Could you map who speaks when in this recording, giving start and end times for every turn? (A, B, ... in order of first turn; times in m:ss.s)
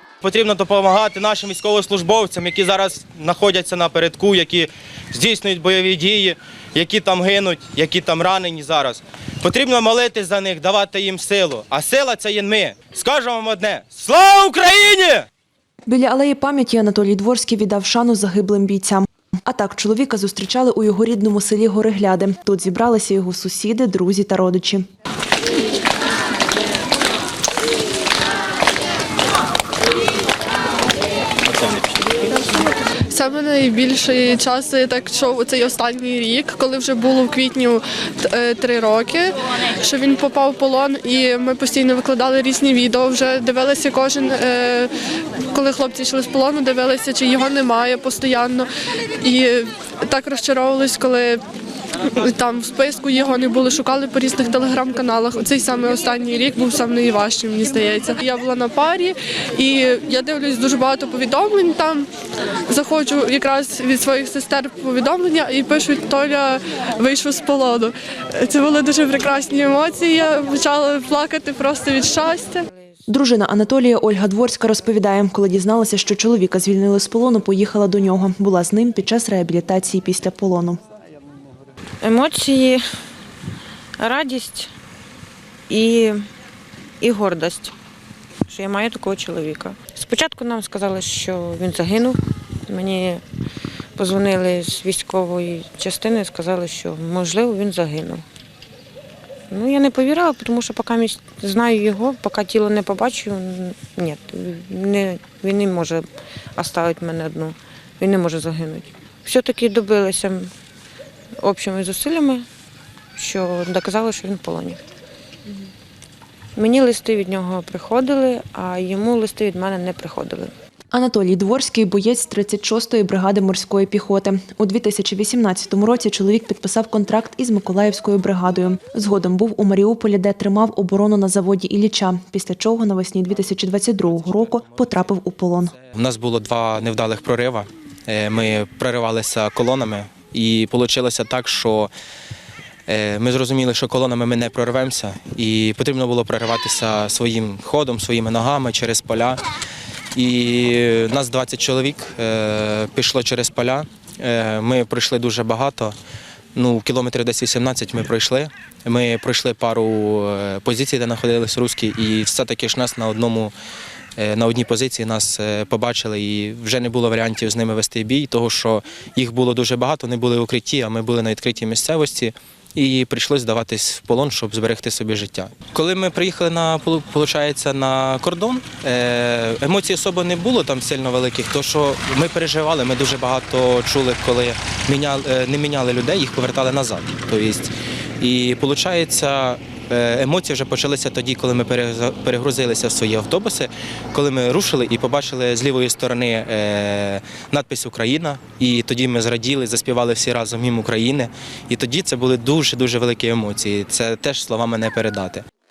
0:00.2-0:15.2 A
0:15.8-0:24.8 B
0:33.1-0:44.9 C
0:45.5-0:48.7 C
0:49.2-0:51.4 C
0:52.2-1:02.1 C
1:02.7-1:12.6 C
1:12.7-1:13.0 D
1:13.1-1:20.8 B
1:22.0-1:22.8 D
1:24.0-1:24.7 D
1:25.7-1:26.2 D
1:27.0-1:27.7 D
1:28.5-1:33.2 D
1:34.0-1:38.2 D
1:39.5-1:50.5 D
1:51.4-1:52.4 D
1:53.2-1:54.8 D
1:56.6-2:00.5 D
2:00.9-2:15.7 B
2:13.3-2:21.9 A
2:22.9-2:29.4 A
2:30.1-2:35.9 A
2:36.5-2:43.5 A
2:44.2-3:25.4 A